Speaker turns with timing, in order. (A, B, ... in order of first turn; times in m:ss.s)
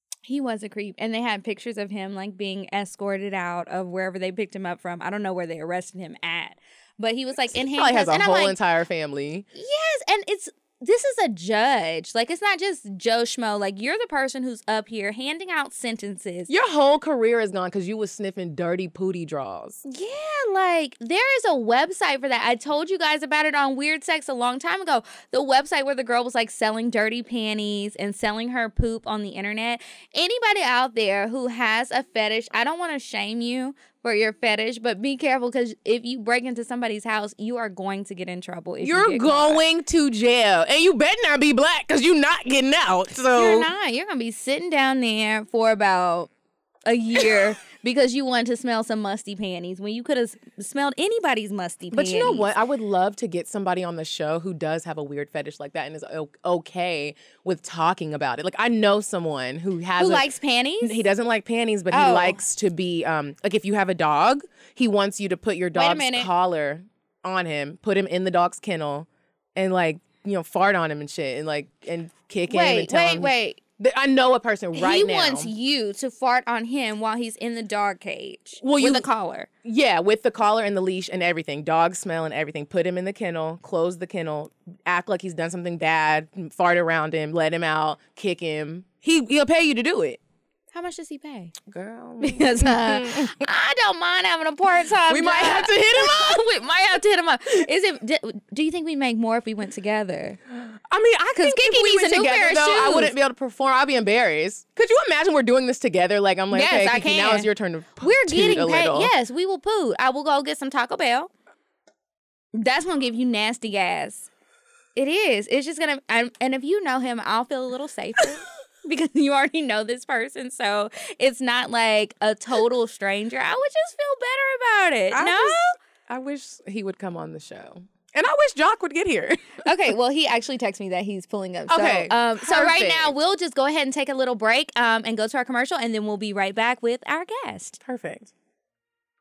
0:00.2-0:08.6 A
0:07.5-0:09.4 B
0:09.6-0:16.5 A
0:16.5-0:19.8 B
0:19.8-0:39.6 A
0:38.8-0:43.7 B
0:43.3-0:46.3 A
0:46.8-0:52.5 A
0:51.9-1:00.3 B
1:00.0-1:01.0 A
1:00.8-1:15.5 B
1:01.9-1:02.4 A
1:05.8-1:06.3 A
1:12.5-1:13.6 A
1:14.8-1:19.5 A
1:18.6-1:19.0 B
1:19.6-1:30.2 B
1:30.7-1:31.5 A
1:31.7-1:33.4 B
1:32.2-1:40.4 A
1:35.1-1:36.4 B
1:40.9-1:49.1 B
1:41.4-1:43.1 A
1:46.5-1:47.5 A
1:48.0-1:51.3 A
1:52.5-1:54.3 A
1:54.9-2:05.6 A
2:05.1-2:09.6 B
2:09.6-2:17.8 A
2:11.7-2:13.1 B
2:17.8-2:18.3 B